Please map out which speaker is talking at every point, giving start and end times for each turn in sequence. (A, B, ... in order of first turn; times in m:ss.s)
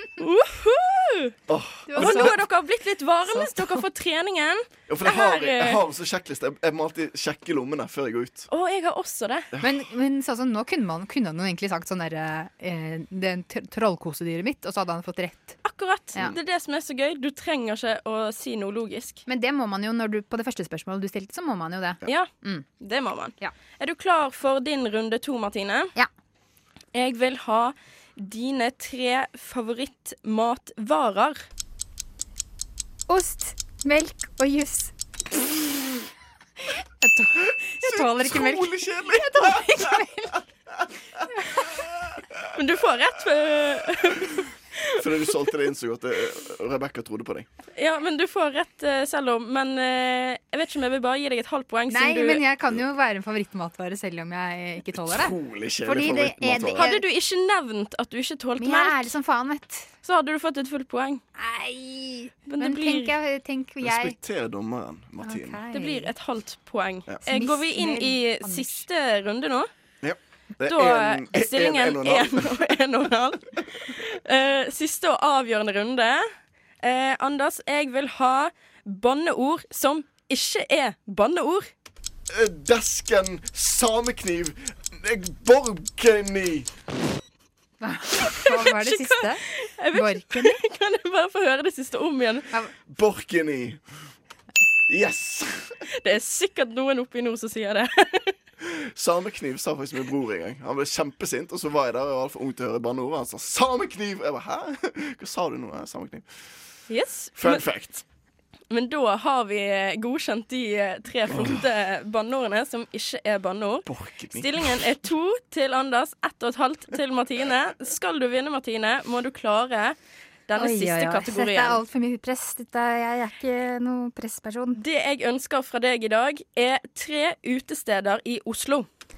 0:00.2-0:01.3 A
0:01.5-0:02.4 B
0:01.9-0:02.3 C
0:01.9-0:05.8 A
0:03.2-0:03.8 C
0:04.9-0:08.5 B
0:08.5-0:09.5 A
0:09.5-0:09.8 B
0:09.6-0:15.6 C
0:15.6-0:19.2 A
0:19.2-0:22.6 C
0:22.0-0:25.9 A
0:26.9-0:31.4 A
0:33.1-0:34.9 C
0:37.0-0:40.3 C
0:37.8-0:40.0 B
0:42.6-0:45.1 A
0:45.0-0:47.4 B
0:47.8-0:52.4 A
0:51.9-0:57.0 C
0:54.9-0:57.0 B
0:56.7-0:59.1 A
0:58.6-0:59.9 C
1:00.0-1:01.2 A
1:01.4-1:04.2 C
1:02.4-1:03.1 A
1:03.8-1:05.7 B
1:05.2-1:06.1 C
1:05.7-1:09.7 A
1:07.2-1:08.8 C
1:10.0-1:12.6 B
1:10.7-1:13.4 A
1:14.0-1:16.3 A
1:16.8-1:21.7 A
1:22.3-1:26.7 B
1:27.8-1:29.4 C
1:28.3-1:32.5 A
1:29.9-1:30.5 C
1:32.9-1:33.8 B
1:34.9-1:35.7 B
1:35.9-1:38.3 A
1:38.6-1:46.2 B
1:46.9-1:47.7 A
1:47.4-1:48.0 B
1:48.7-2:00.0 A
1:53.8-1:54.8 B
2:00.5-2:01.8 A
2:00.5-2:04.8 C
2:04.7-2:08.8 A